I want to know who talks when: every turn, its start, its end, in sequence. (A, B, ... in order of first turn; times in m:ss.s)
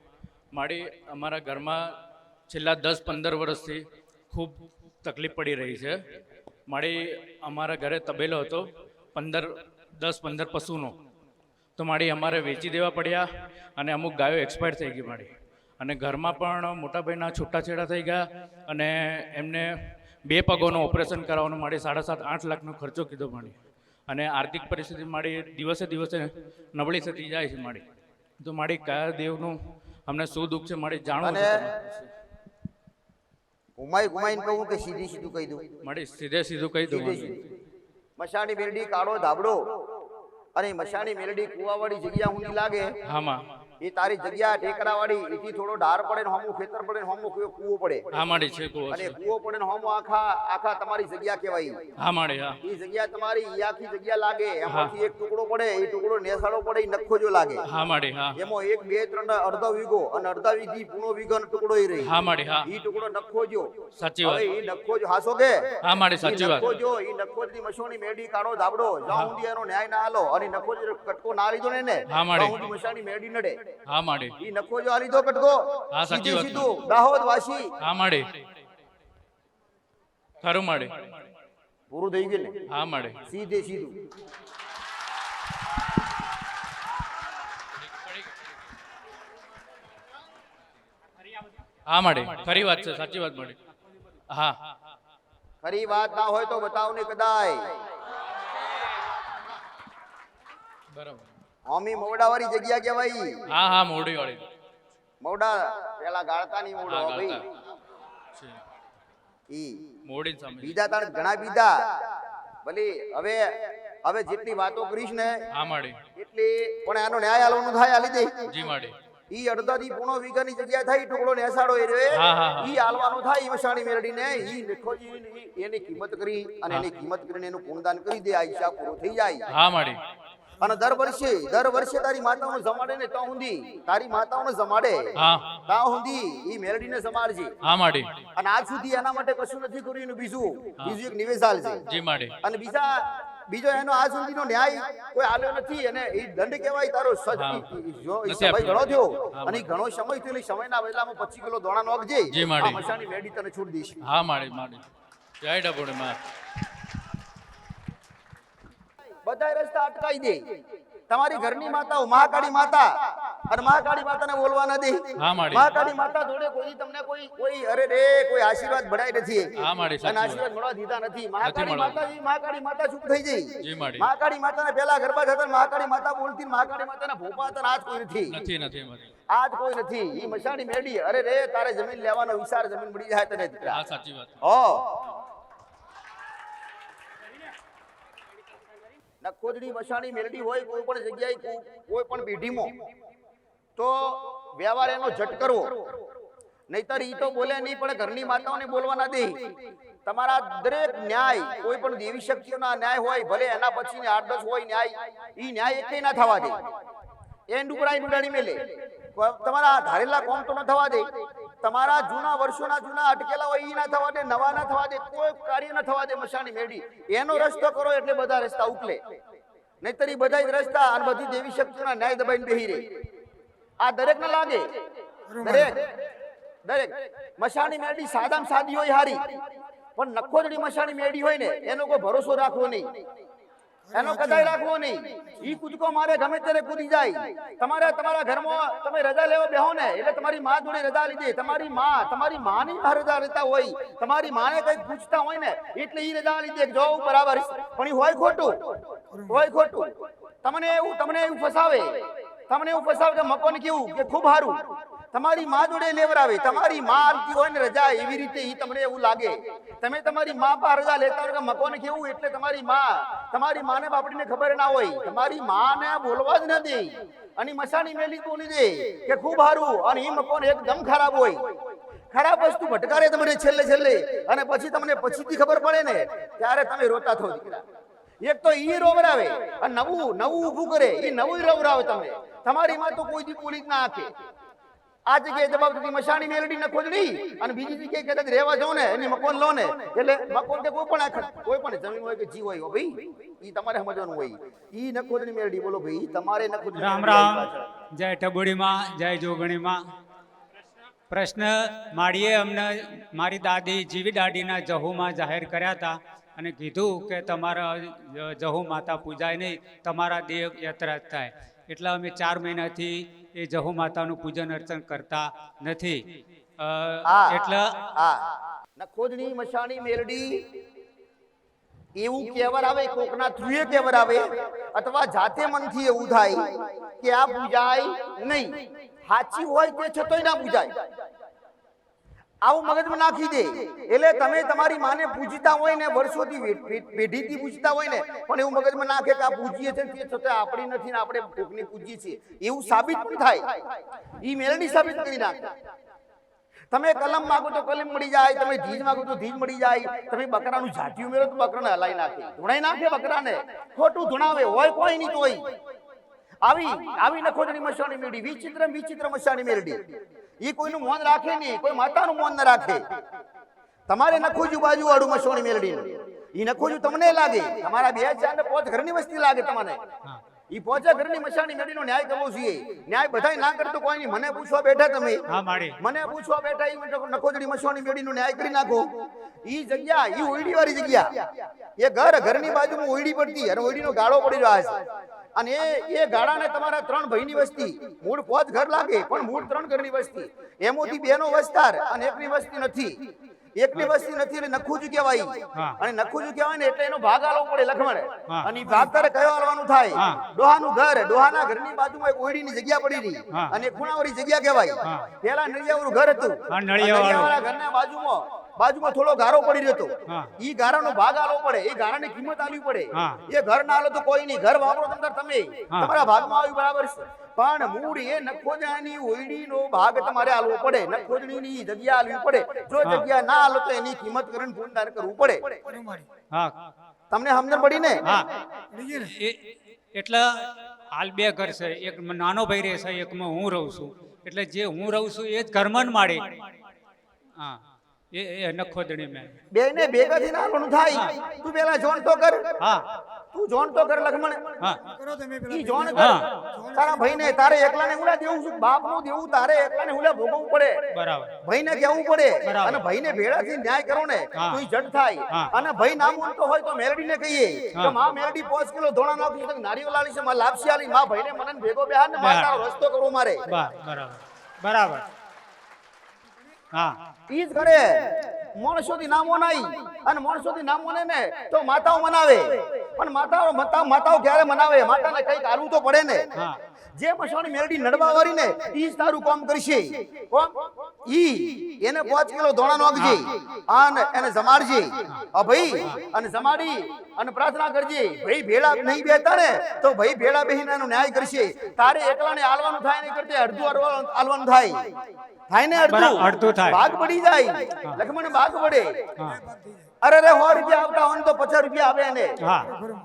0:00.5-0:02.0 A
0:02.5-0:06.0 A
0:06.7-0:10.9 A
0:11.8-0:13.3 A
0:13.8-0:19.7 A
0:20.3-0:23.5 A
0:24.1-0:27.8 A
0:28.4-0:29.6 A
0:30.1-0:32.1 A
0:31.2-0:31.7 B
0:33.8-0:35.6 B
0:35.8-0:37.3 A
0:36.9-0:37.4 B
0:38.2-0:39.7 B
0:40.6-0:42.9 B
0:43.1-0:43.4 A
0:43.8-0:48.1 B
0:48.1-0:49.2 A
0:48.9-0:51.8 B
0:52.0-0:52.6 A
0:52.6-0:57.6 B
0:54.7-0:54.9 A
0:57.7-0:58.4 A
0:58.4-1:02.1 B
1:02.0-1:02.7 A
1:02.6-1:13.6 B
1:04.0-1:04.4 A
1:05.8-1:06.8 A
1:12.1-1:12.6 A
1:13.9-1:14.3 A
1:14.4-1:17.7 B
1:15.9-1:16.7 A
1:17.8-1:18.4 A
1:20.4-1:21.0 A
1:21.9-1:22.6 B
1:22.7-1:23.2 A
1:23.3-1:24.0 B
1:31.9-1:33.6 A
1:34.3-1:34.6 A
1:35.6-1:37.7 B
1:40.9-1:41.3 A
1:41.7-1:43.3 B
1:43.5-1:44.5 A
1:45.2-1:47.5 B
1:46.9-1:47.4 A
1:49.5-1:49.8 B
1:50.1-1:50.8 A
1:50.6-1:51.7 B
1:52.6-1:55.4 B
1:55.5-1:56.0 A
1:56.2-1:58.5 B
1:58.5-1:59.0 A
1:59.3-2:09.5 B
2:02.1-2:02.7 A
2:09.5-2:10.0 A
2:10.6-2:15.1 B
2:15.2-2:15.6 A
2:15.7-2:17.6 B
2:17.6-2:18.1 A
2:18.4-2:21.8 B
2:21.9-2:22.4 A
2:22.4-2:34.0 B
2:27.4-2:27.6 A
2:28.3-2:29.7 A
2:32.3-2:32.8 A
2:34.0-2:34.8 A
2:35.4-2:36.2 A
2:39.2-2:40.4 B
2:41.1-2:42.9 B
2:43.5-2:49.5 B
2:45.2-2:45.7 A
2:49.6-2:50.4 A
2:50.0-2:58.4 B
2:51.4-2:52.0 A
2:53.6-2:54.1 A
2:58.3-2:59.1 A
2:59.3-3:03.8 B
3:03.7-3:04.4 A
3:04.4-3:05.0 B
3:09.2-3:12.8 B
3:13.8-3:15.8 B
3:16.7-3:19.4 B
3:20.1-3:26.6 B
3:27.5-3:28.6 B
3:29.2-3:31.1 B
3:31.6-3:39.0 B
3:39.8-3:42.9 B
3:43.8-3:44.7 B
3:45.4-3:45.9 B
3:46.6-3:49.2 B
3:50.0-3:52.9 B
3:53.9-4:09.9 B
4:10.4-4:14.6 B
4:15.1-4:31.4 B
4:32.1-4:37.6 B
4:38.2-4:44.1 B
4:45.1-4:57.7 B
4:56.8-4:59.8 C
5:01.1-5:16.0 C
5:16.6-5:17.8 C
5:17.0-5:17.4 B
5:18.0-5:20.4 B
5:22.0-5:28.6 B
5:29.1-5:30.8 B
5:32.4-5:43.6 B
5:44.2-5:45.5 B
5:46.7-5:55.4 B
5:56.4-5:59.8 B
6:00.4-6:02.8 B
6:03.9-6:09.8 B
6:10.5-6:15.2 B
6:15.3-6:15.8 C
6:15.8-6:18.9 B
6:19.5-6:21.3 B
6:21.8-6:24.8 B
6:25.4-6:33.0 B
6:33.6-7:05.6 B
6:40.0-6:40.2 C
6:46.5-6:47.3 C
6:50.1-6:50.3 C
6:52.9-6:53.2 C
7:07.1-7:08.0 B
7:08.8-7:16.4 C
7:18.1-7:19.4 C
7:19.5-7:22.5 B
7:23.3-7:24.6 B
7:25.5-7:30.8 B
7:25.9-7:26.3 C
7:30.9-7:31.3 C
7:31.4-7:43.4 B
7:32.4-7:32.8 C
7:42.2-7:42.5 C
7:43.5-7:45.1 C
7:47.3-7:56.3 B
7:57.0-8:14.9 B
8:15.5-8:19.0 B
8:15.9-8:16.8 C
8:19.2-8:19.4 C
8:20.0-8:22.4 B
8:22.4-8:22.8 C